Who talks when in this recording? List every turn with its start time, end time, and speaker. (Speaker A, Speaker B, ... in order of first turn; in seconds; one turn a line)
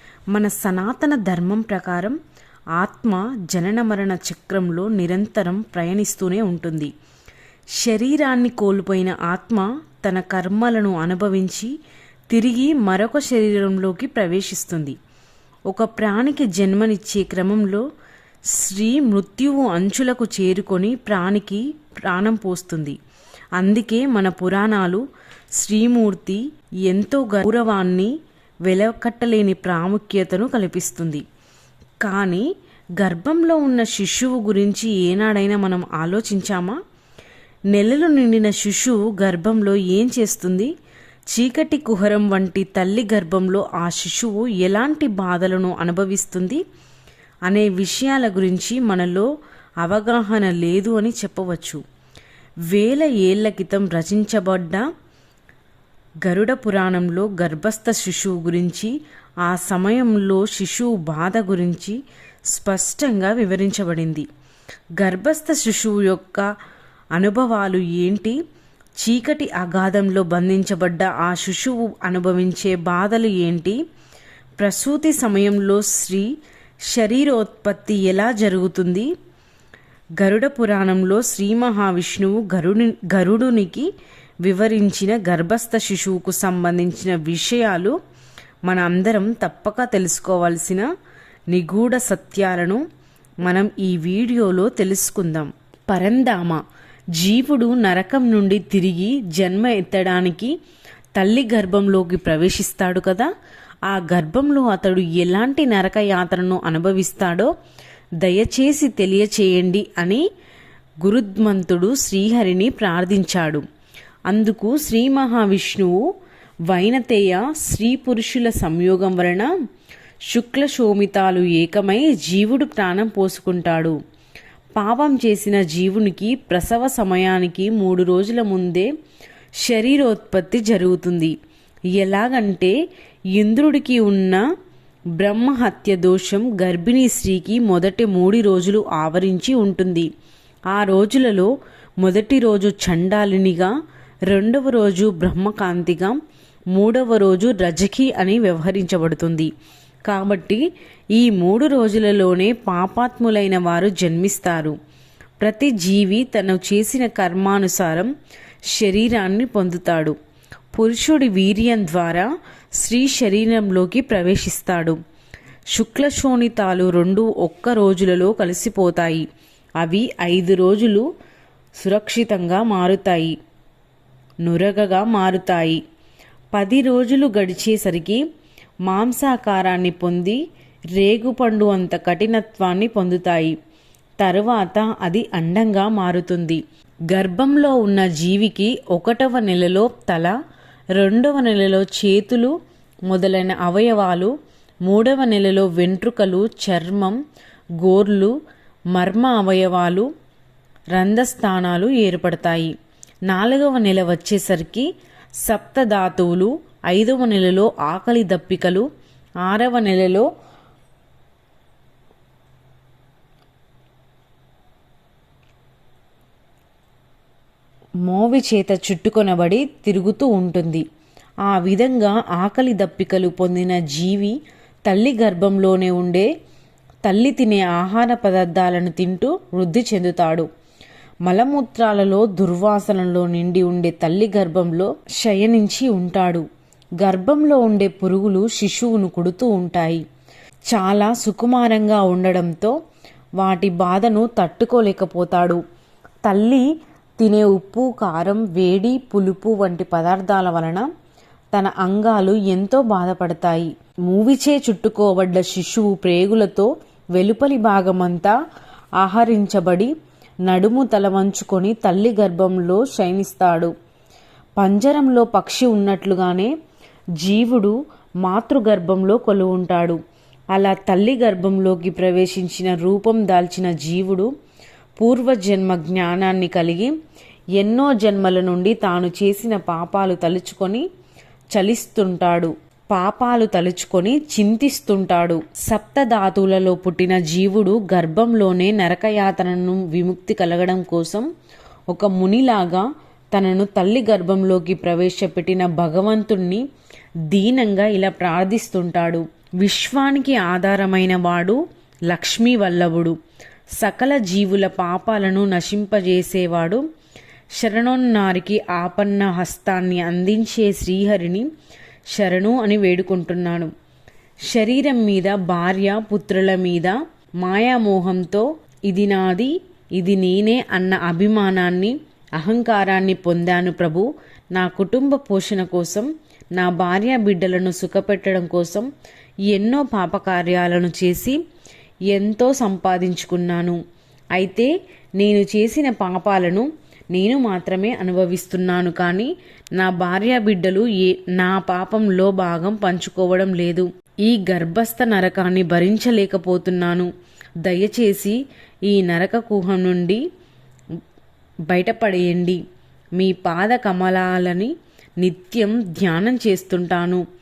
Speaker A: 0.3-2.2
Speaker A: 2.7-6.9
Speaker A: 7.7-11.7
Speaker A: 12.3-15.0
Speaker A: 15.7-17.8
Speaker A: 18.5-23.0
Speaker A: 23.6-28.1
Speaker A: 28.6-31.2
Speaker A: 32.0-32.5
Speaker A: 33.0-36.8
Speaker A: 37.7-40.7
Speaker A: 41.3-46.6
Speaker A: 47.5-49.3
Speaker A: 49.8-51.8
Speaker A: 52.7-54.9
Speaker A: 56.2-64.3
Speaker A: 65.0-66.5
Speaker A: 67.1-68.4
Speaker A: 69.0-73.8
Speaker A: 74.6-76.3
Speaker A: 76.8-79.1
Speaker A: 80.2-83.9
Speaker A: 84.4-88.0
Speaker A: 88.6-90.9
Speaker A: 91.5-92.8
Speaker A: 93.4-96.6
Speaker A: 97.2-100.5
Speaker A: 101.1-103.3
Speaker A: 103.9-107.5
Speaker A: 108.2-110.2
Speaker A: 111.0-113.6
Speaker A: 114.3-116.0
Speaker A: 116.7-119.5
Speaker A: 120.3-124.0
Speaker A: 124.7-128.9
Speaker A: 129.6-131.3
Speaker A: 131.9-132.8
Speaker A: 133.3-134.4
Speaker A: 135.2-140.1
Speaker A: 140.7-143.7
Speaker A: 144.3-146.2
Speaker A: 146.7-149.5
Speaker A: 150.1-154.8
Speaker A: 155.4-158.1
Speaker A: 158.7-160.1
Speaker A: 160.7-165.0
Speaker A: 165.7-169.2
Speaker A: 169.8-171.1
Speaker A: 171.8-173.3
Speaker A: 174.4-175.8
Speaker A: 176.5-178.2
Speaker A: 178.8-180.4
Speaker A: 180.9-183.6
Speaker A: 184.2-190.4
Speaker A: 190.9-192.5
Speaker A: 193.1-197.2
Speaker A: 197.8-198.3
Speaker A: 198.9-200.1
Speaker A: 200.9-202.7
Speaker A: 203.3-204.9
Speaker A: 205.4-208.9
Speaker A: 209.4-210.3
Speaker A: 218.0-220.8
Speaker A: 221.4-226.3
Speaker A: 227.0-230.5
Speaker A: 231.2-236.4
Speaker A: 237.0-240.0
Speaker A: 240.7-242.8
Speaker A: 243.4-245.6
Speaker A: 246.2-246.7
Speaker A: 247.2-250.9
Speaker A: 251.5-258.4
Speaker A: 259.0-259.9
Speaker A: 260.4-263.7
Speaker A: 264.6-266.5
Speaker A: 267.2-270.0
Speaker A: 270.5-274.3
Speaker A: 275.0-276.9
Speaker A: 277.6-280.8
Speaker A: 281.5-291.3
Speaker A: 291.9-296.6
Speaker A: 297.3-303.2
Speaker A: 303.8-306.8
Speaker A: 307.6-311.5
Speaker A: 312.1-313.7
Speaker A: 314.5-328.9
Speaker A: 329.5-331.4
Speaker A: 332.1-333.8
Speaker A: 334.3-347.1
Speaker A: 347.6-350.2
Speaker A: 351.7-352.6
Speaker A: 353.2-357.2